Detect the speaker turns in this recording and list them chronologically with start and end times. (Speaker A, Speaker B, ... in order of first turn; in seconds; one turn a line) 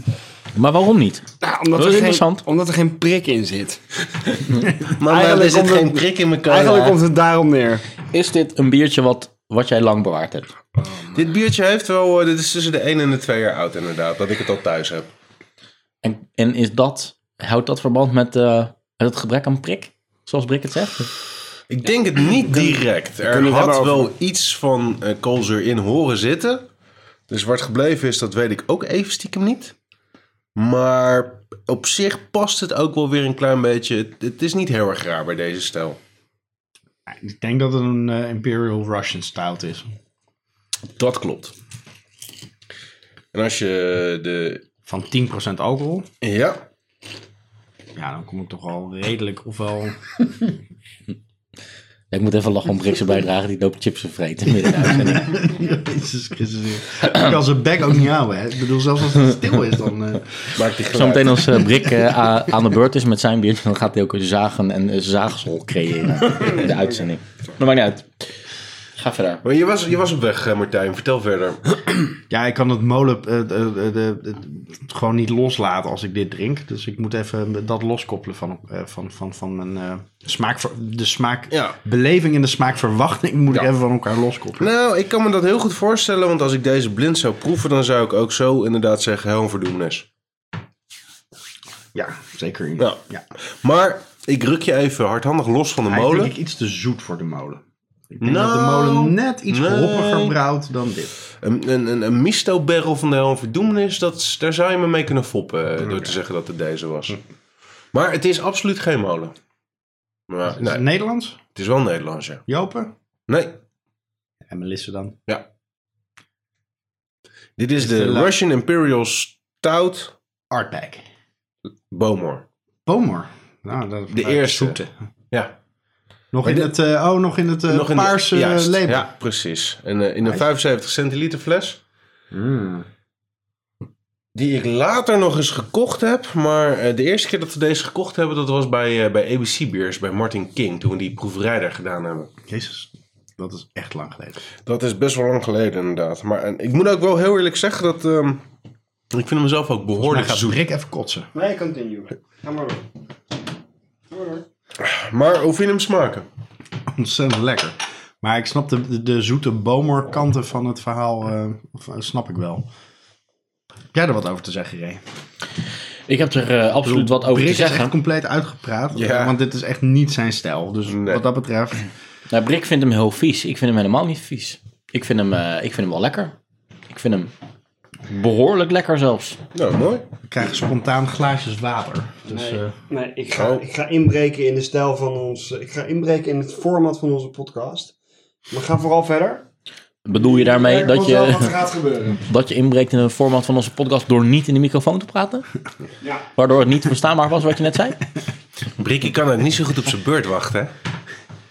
Speaker A: 0.5-2.4
Speaker B: 1.4-7.8
Speaker C: 5.0-7.0
Speaker A: 8.1-10.5
Speaker B: 10.8-11.1
Speaker C: 11.1-15.1
Speaker A: 16.0-21.1
Speaker C: 21.7-26.7
Speaker B: 22.5-24.1
Speaker C: 27.3-29.7
Speaker C: 30.6-36.0
Speaker D: 37.1-39.9
Speaker C: 41.0-41.5
Speaker C: 43.3-44.6
Speaker D: 44.9-46.1
Speaker C: 46.2-46.6
Speaker D: 48.0-50.1
Speaker A: 52.1-55.4
Speaker D: 54.5-60.3
Speaker C: 60.5-61.6
Speaker A: 60.9-68.1
Speaker B: 66.4-66.7
Speaker A: 69.0-69.4
Speaker C: 69.4-71.8
Speaker D: 72.3-84.7
Speaker C: 81.5-81.8
Speaker C: 84.6-90.0
Speaker D: 91.9-93.2
Speaker C: 93.6-96.3
Speaker D: 95.8-97.6
Speaker D: 98.1-101.1
Speaker C: 98.2-100.3
Speaker C: 101.4-107.2
Speaker D: 105.8-106.1
Speaker C: 107.9-109.3
Speaker C: 110.3-110.8
Speaker D: 110.5-111.4
Speaker C: 111.5-112.4
Speaker D: 112.5-112.9
Speaker C: 113.3-113.6
Speaker D: 114.5-115.2
Speaker C: 117.6-120.1
Speaker D: 117.8-118.3
Speaker D: 120.5-121.0
Speaker C: 121.9-122.4
Speaker D: 122.8-124.9
Speaker C: 124.1-125.5
Speaker D: 126.3-129.1
Speaker C: 126.4-126.7
Speaker C: 127.7-131.8
Speaker D: 132.3-132.9
Speaker C: 134.3-142.3
Speaker D: 142.5-144.4
Speaker C: 144.7-148.4
Speaker C: 149.1-150.6
Speaker D: 150.0-151.3
Speaker B: 151.3-152.9
Speaker B: 154.1-154.4
Speaker C: 154.8-156.2
Speaker D: 156.9-162.7
Speaker D: 163.9-165.0
Speaker A: 166.1-167.9
Speaker D: 166.8-171.8
Speaker C: 168.9-169.4
Speaker C: 170.9-171.2
Speaker A: 172.3-176.3
Speaker A: 176.9-177.3
Speaker A: 178.1-179.4
Speaker C: 179.5-180.0
Speaker D: 180.3-182.7
Speaker B: 182.3-187.9
Speaker C: 183.3-183.6
Speaker B: 188.5-189.4
Speaker A: 190.0-191.5
Speaker B: 190.1-192.2
Speaker A: 192.2-195.4
Speaker A: 196.3-198.0
Speaker C: 198.8-200.7